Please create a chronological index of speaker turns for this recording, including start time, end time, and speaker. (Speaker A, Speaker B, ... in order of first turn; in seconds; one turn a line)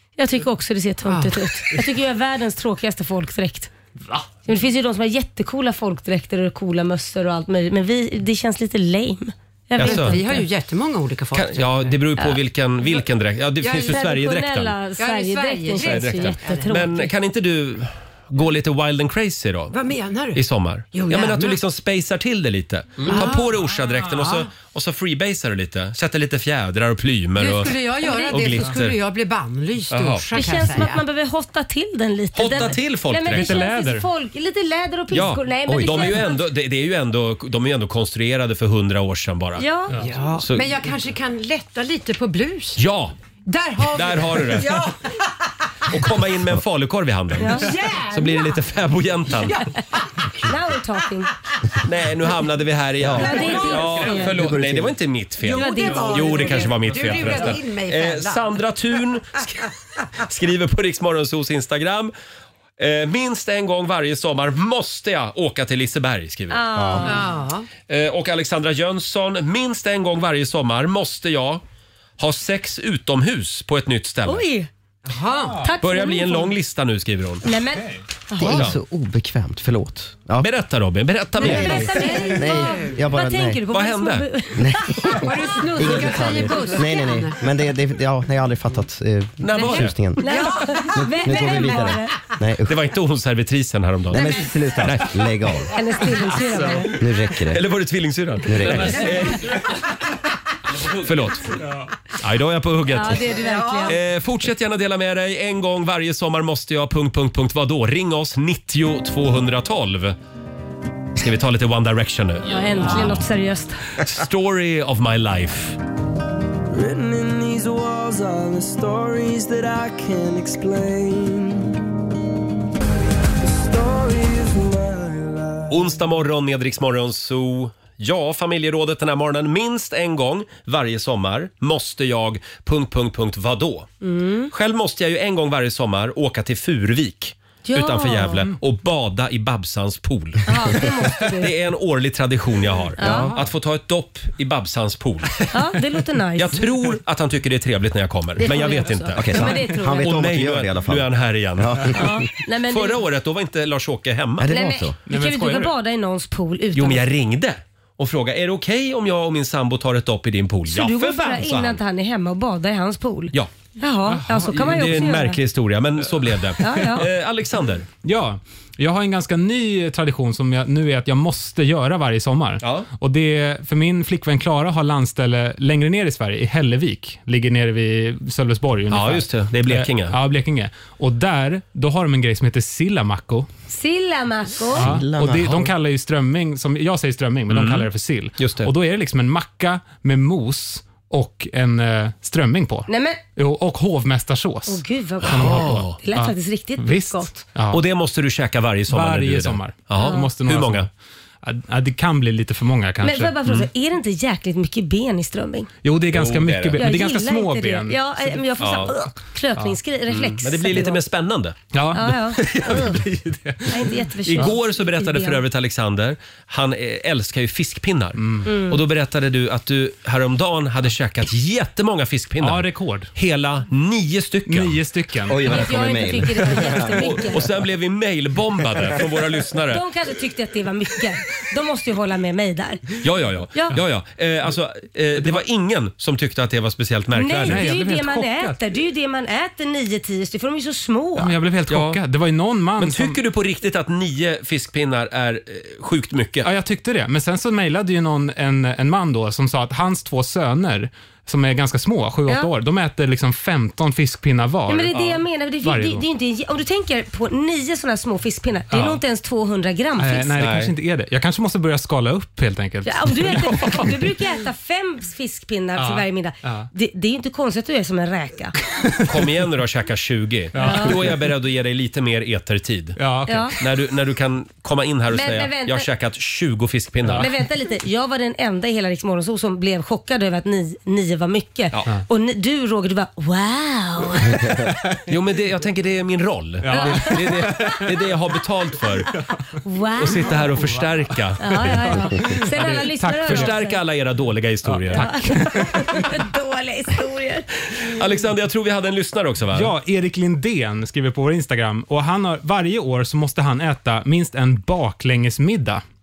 Speaker A: 0.2-3.7
Speaker B: 1.1-1.8
Speaker A: 4.5-10.4
Speaker C: 9.8-10.2
Speaker B: 9.8-12.0
Speaker C: 11.3-14.7
Speaker B: 13.6-14.1
Speaker A: 13.9-17.1
Speaker B: 15.0-17.1
Speaker C: 15.8-19.8
Speaker B: 19.7-20.4
Speaker C: 20.3-29.0
Speaker B: 20.9-21.6
Speaker B: 23.1-24.5
Speaker B: 27.4-31.0
Speaker A: 28.0-28.5
Speaker C: 29.9-30.3
Speaker A: 30.3-36.4
Speaker C: 32.4-33.6
Speaker D: 33.2-34.1
Speaker C: 35.1-39.6
Speaker E: 35.7-36.2
Speaker A: 39.6-40.0
Speaker B: 40.0-42.8
Speaker C: 40.4-40.7
Speaker C: 42.8-43.1
Speaker B: 43.5-45.1
Speaker C: 43.9-44.9
Speaker C: 45.9-49.6
Speaker A: 47.4-47.7
Speaker B: 47.4-48.6
Speaker B: 49.3-50.3
Speaker A: 50.4-51.3
Speaker C: 51.8-59.6
Speaker E: 53.0-53.5
Speaker A: 53.1-54.4
Speaker E: 54.1-55.0
Speaker B: 55.4-58.5
Speaker A: 55.5-56.7
Speaker C: 60.2-62.1
Speaker C: 62.8-66.6
Speaker A: 66.5-67.2
Speaker E: 66.8-67.1
Speaker B: 67.0-67.7
Speaker C: 67.9-71.6
Speaker C: 72.2-74.4
Speaker A: 74.3-74.7
Speaker B: 75.1-75.7
Speaker A: 75.6-76.5
Speaker C: 75.8-77.5
Speaker A: 77.4-78.7
Speaker E: 78.4-80.5
Speaker C: 78.4-78.8
Speaker C: 80.4-81.9
Speaker E: 81.4-83.6
Speaker A: 81.4-87.1
Speaker B: 81.4-83.0
Speaker C: 83.7-84.3
Speaker E: 84.6-92.8
Speaker B: 85.1-87.4
Speaker C: 89.4-90.0
Speaker A: 89.5-92.2
Speaker B: 90.2-91.8
Speaker C: 92.7-95.1
Speaker E: 94.1-95.7
Speaker A: 95.7-97.0
Speaker E: 96.9-97.6
Speaker C: 97.5-99.6
Speaker E: 98.4-99.1
Speaker C: 100.8-101.6
Speaker C: 102.1-103.3
Speaker A: 102.9-104.0
Speaker B: 103.3-104.0
Speaker C: 103.8-110.2
Speaker C: 111.2-113.2
Speaker A: 112.5-113.8
Speaker C: 114.0-115.8
Speaker F: 116.7-121.8
Speaker F: 123.4-125.6
Speaker C: 125.7-133.9
Speaker A: 134.0-134.5
Speaker C: 134.5-145.5
Speaker A: 137.7-138.5
Speaker A: 140.5-141.5
Speaker A: 143.0-143.3
Speaker E: 143.0-143.3
Speaker A: 145.5-146.6
Speaker C: 146.4-152.0
Speaker A: 148.4-150.1
Speaker E: 149.2-152.1
Speaker A: 151.9-153.0
Speaker C: 152.7-154.5
Speaker E: 154.4-155.0
Speaker A: 154.5-157.0
Speaker D: 155.1-155.7
Speaker C: 156.8-161.8
Speaker A: 160.7-165.4
Speaker D: 164.1-165.1
Speaker C: 164.5-167.9
Speaker A: 166.6-167.1
Speaker D: 168.0-183.5
Speaker C: 172.6-172.9
Speaker C: 178.9-180.2
Speaker A: 183.7-184.9
Speaker D: 184.7-197.8
Speaker E: 184.8-185.7
Speaker C: 187.5-187.9
Speaker C: 188.4-188.7
Speaker A: 192.9-193.2
Speaker A: 194.7-197.4
Speaker C: 195.3-196.0
Speaker C: 197.7-200.9
Speaker D: 198.9-200.9
Speaker A: 200.0-200.3
Speaker D: 201.4-203.4
Speaker A: 203.0-205.7
Speaker D: 205.8-208.4
Speaker C: 206.1-206.8
Speaker A: 206.8-211.0
Speaker C: 208.6-208.9
Speaker C: 210.1-211.6
Speaker D: 211.7-214.5
Speaker A: 211.9-213.0
Speaker C: 212.5-212.9
Speaker A: 213.7-215.4
Speaker C: 214.3-224.8
Speaker D: 218.2-218.5
Speaker A: 218.5-218.8
Speaker D: 222.4-223.1
Speaker D: 224.5-225.6
Speaker E: 225.3-227.0
Speaker A: 225.5-227.4
Speaker C: 227.0-229.8
Speaker A: 229.7-233.0
Speaker C: 233.0-237.7
Speaker A: 237.2-241.4
Speaker D: 237.4-238.6
Speaker D: 241.2-243.2
Speaker C: 241.7-242.0
Speaker C: 242.8-246.5
Speaker D: 246.4-254.9
Speaker A: 254.7-260.4
Speaker C: 254.9-255.2
Speaker D: 255.6-256.0
Speaker D: 258.7-259.0
Speaker D: 260.0-264.1
Speaker C: 260.4-260.7
Speaker A: 262.9-268.6
Speaker D: 265.8-266.7
Speaker D: 268.8-269.1
Speaker C: 269.1-273.0
Speaker D: 270.5-271.3
Speaker A: 270.6-271.0
Speaker D: 273.0-273.6
Speaker A: 273.3-273.6
Speaker C: 273.6-277.3
Speaker A: 275.1-275.9
Speaker A: 277.2-284.5
Speaker C: 285.1-289.1
Speaker D: 286.6-287.9
Speaker A: 286.7-287.2
Speaker A: 289.6-290.5
Speaker C: 290.0-291.7
Speaker D: 290.4-290.8
Speaker A: 291.4-293.8
Speaker D: 291.5-293.6
Speaker C: 293.2-295.1
Speaker D: 294.6-296.1
Speaker A: 294.9-297.5
Speaker C: 297.8-299.8
Speaker D: 299.5-305.8